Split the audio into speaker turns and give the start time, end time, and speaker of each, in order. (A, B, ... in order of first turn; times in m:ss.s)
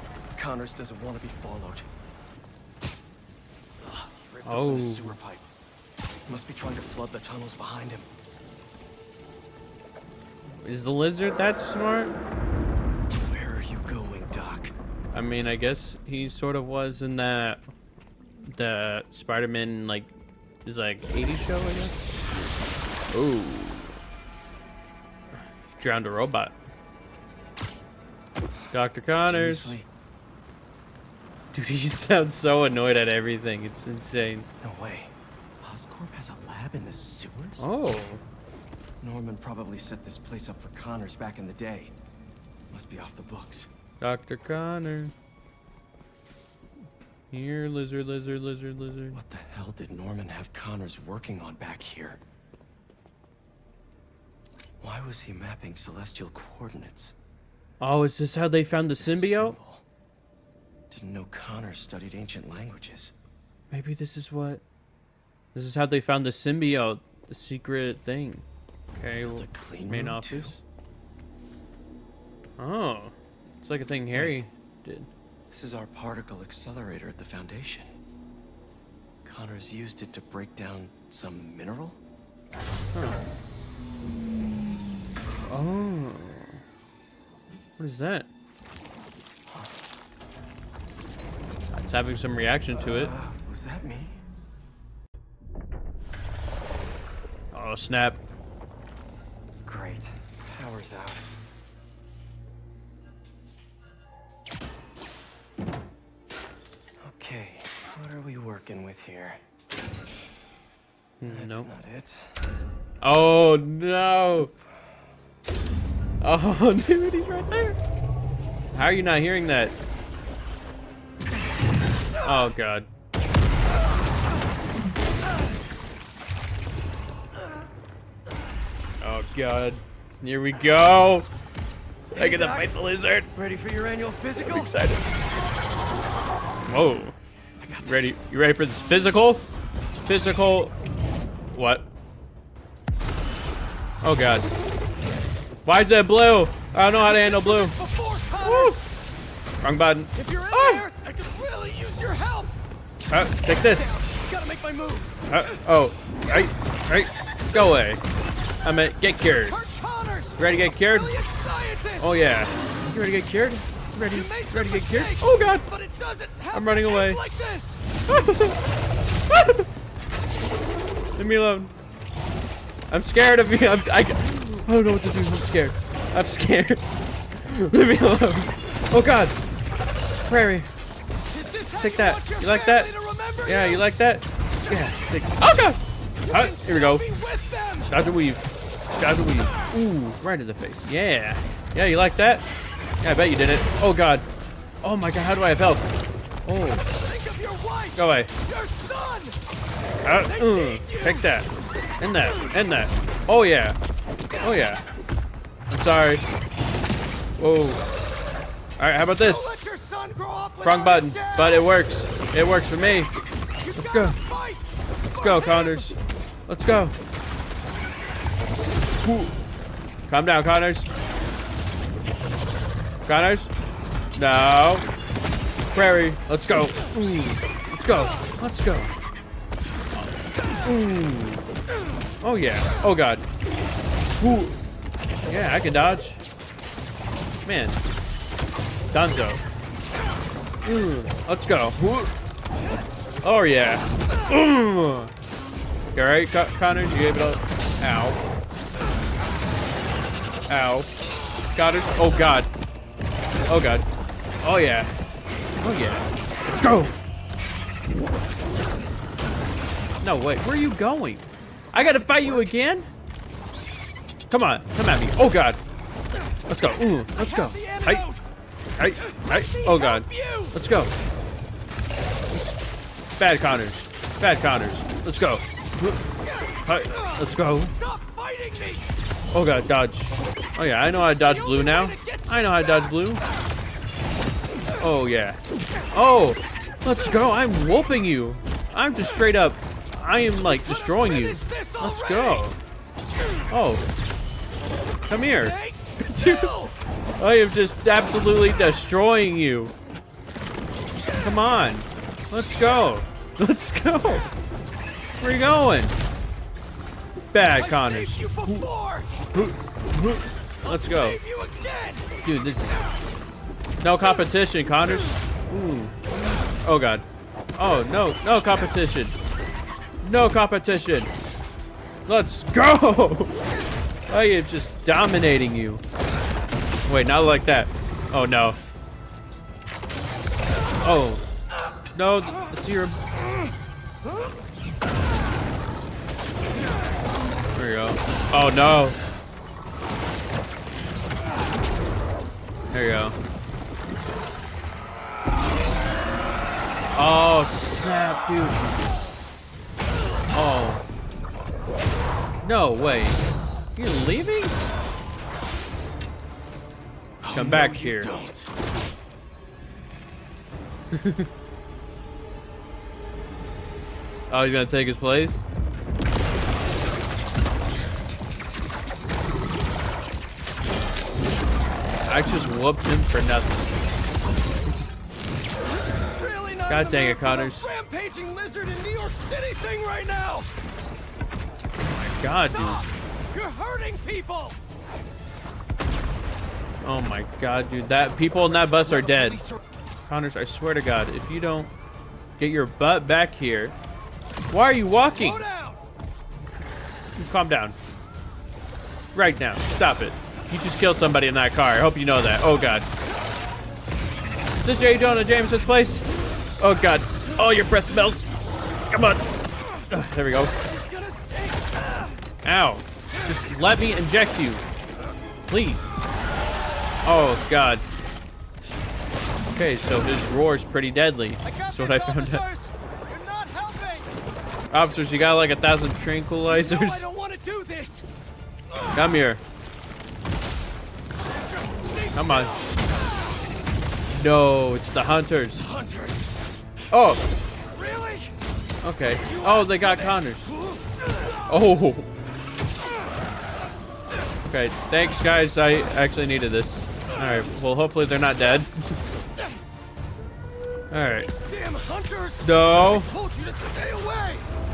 0:00.3-0:01.9 A
0:03.8-0:05.4 A
0:04.4-0:05.2 B
0:06.3-0:08.1 A
0:10.6-0:12.2 B
0:13.2-0:14.7 A
0:15.1-0:17.6 B
0:18.5-0:20.1 B
0:20.6-0:22.0 B
0:23.1-0:23.9 B
0:25.8-0:26.5 B
0:28.7-0:29.8 B
0:29.1-0:29.9 A
0:31.5-0:34.5 B
0:34.6-0:37.7 A
0:37.6-0:38.2 B
0:39.0-0:41.9 A
0:42.7-0:43.7 A
0:44.0-0:45.1 B
0:47.3-0:49.2 B
0:49.1-0:52.2 A
0:54.8-0:57.1 A
0:57.8-0:59.6 B
0:59.0-0:59.8 A
1:00.9-1:03.1 A
1:03.7-1:04.6 B
1:05.5-1:08.4 B
1:09.0-1:10.6 B
1:09.2-1:10.6 A
1:12.6-1:15.1 B
1:14.1-1:14.4 A
1:15.5-1:17.9 A
1:19.2-1:22.0 A
1:22.9-1:23.2 B
1:25.5-1:26.6 B
1:27.8-1:28.3 B
1:29.5-1:29.7 A
1:31.7-1:33.1 B
1:32.7-1:34.2 A
1:37.5-1:38.2 B
1:39.6-1:41.2 A
1:47.0-1:49.4 A
1:51.2-1:51.7 B
1:51.2-1:52.3 A
1:53.0-1:54.5 B
1:56.2-1:57.8 B
1:58.7-1:59.7 B
2:02.2-2:02.9 B
2:09.0-2:11.3 B
2:12.1-2:13.3 B
2:12.1-2:12.7 C
2:13.3-2:14.7 C
2:14.5-2:15.1 B
2:16.7-2:17.1 B
2:17.6-2:18.1 A
2:17.8-2:19.4 B
2:20.1-2:20.7 B
2:21.5-2:21.8 B
2:24.0-2:24.5 B
2:25.6-2:27.8 B
2:26.9-2:28.8 C
2:28.4-2:28.8 B
2:29.6-2:30.8 B
2:30.1-2:32.5 C
2:33.1-2:33.9 B
2:33.4-2:35.6 C
2:35.3-2:38.0 B
2:38.6-2:39.6 B
2:39.3-2:42.1 C
2:40.4-2:41.1 B
2:42.0-2:45.6 B
2:44.1-2:47.8 C
2:46.5-2:47.2 B
2:48.1-2:48.6 B
2:49.3-2:49.6 B
2:51.2-2:51.7 B
2:52.9-2:56.8 B
2:57.4-2:59.4 B
3:00.2-3:00.7 B
3:01.3-3:03.9 C
3:01.8-3:02.9 B
3:03.4-3:07.0 B
3:06.3-3:07.9 C
3:07.9-3:08.4 B
3:09.0-3:12.4 B
3:13.0-3:14.3 B
3:14.8-3:15.9 B
3:16.4-3:16.8 B
3:17.0-3:19.4 C
3:18.0-3:18.3 B
3:20.0-3:21.5 B
3:20.2-3:21.2 C
3:22.0-3:23.8 B
3:24.4-3:24.8 B
3:25.7-3:26.2 B
3:27.4-3:27.8 B
3:28.8-3:29.6 B
3:29.2-3:31.8 C
3:30.6-3:33.1 B
3:33.6-3:35.9 C
3:33.8-3:34.2 B
3:35.1-3:36.0 B
3:36.5-3:37.0 B
3:39.0-3:39.4 B
3:40.1-3:40.9 B
3:43.0-3:43.5 B
3:44.2-3:44.8 B
3:45.7-3:48.9 B
3:49.9-3:51.4 B
3:52.2-3:53.2 B
3:54.2-3:54.6 B
3:55.3-3:56.2 B
3:57.4-3:57.8 B
3:58.9-3:59.4 B
4:00.6-4:02.1 B
4:03.2-4:05.1 B
4:05.9-4:08.2 B
4:10.5-4:10.9 B
4:11.5-4:12.5 B
4:13.5-4:13.8 B
4:14.4-4:14.9 B
4:15.6-4:16.9 B
4:20.0-4:22.9 B
4:24.3-4:25.6 B
4:26.5-4:28.0 B
4:27.1-4:28.2 C
4:28.8-4:30.9 B
4:29.0-4:30.5 C
4:33.2-4:36.0 B
4:36.2-4:37.2 C
4:36.6-4:37.7 B
4:37.8-4:38.8 C
4:39.3-4:43.2 B
4:41.1-4:43.1 C
4:44.8-4:45.4 B
4:45.9-4:52.6 B
4:50.4-4:52.5 C
4:53.5-4:53.8 B
4:55.1-4:56.5 B
4:55.4-4:56.7 C
4:57.2-4:59.7 B
5:01.2-5:04.3 B
5:05.2-5:06.0 B
5:07.3-5:08.6 B
5:07.5-5:09.1 C
5:09.3-5:11.2 B
5:10.6-5:12.1 C
5:12.2-5:12.8 B
5:13.8-5:17.0 B
5:17.6-5:19.2 B
5:20.0-5:21.1 B
5:22.1-5:23.4 B
5:24.1-5:25.8 B
5:26.8-5:28.6 B
5:30.8-5:31.2 B
5:31.9-5:33.0 B
5:37.5-5:39.0 B
5:42.7-5:43.2 B
5:46.9-5:48.8 B
5:50.3-5:50.8 B
5:52.4-5:53.2 B
5:53.8-5:54.6 B
5:57.2-5:58.5 A
5:57.3-5:58.1 B
6:00.9-6:01.3 B
6:04.3-6:05.4 B
6:12.1-6:13.7 B
6:16.1-6:20.5 C
6:16.7-6:17.7 B
6:21.9-6:22.8 B
6:22.5-6:24.6 C
6:26.8-6:29.4 B
6:28.8-6:29.6 C
6:30.1-6:31.7 B
6:32.4-6:33.8 B
6:34.5-6:35.4 B
6:35.0-6:35.8 C
6:37.2-6:37.8 B
6:39.1-6:42.8 B
6:44.6-6:46.0 B
6:46.6-6:48.3 B
6:48.9-6:49.2 B
6:49.9-6:50.5 B
6:50.6-6:52.2 C
6:52.4-6:54.6 B
6:55.5-6:55.9 B
6:57.0-6:57.8 B
6:59.5-7:02.4 B
7:01.4-7:04.1 C
7:04.7-7:07.0 B
7:06.4-7:08.0 C
7:08.7-7:09.0 C
7:08.9-7:09.4 B
7:11.2-7:13.0 C
7:12.1-7:12.5 B
7:14.2-7:15.7 B
7:15.6-7:16.3 C
7:16.9-7:17.2 B
7:17.7-7:18.3 C
7:18.8-7:20.5 B
7:19.2-7:21.5 C
7:21.5-7:22.1 B
7:24.4-7:29.0 B
7:30.9-7:31.3 B
7:31.4-7:34.5 C
7:32.4-7:33.1 B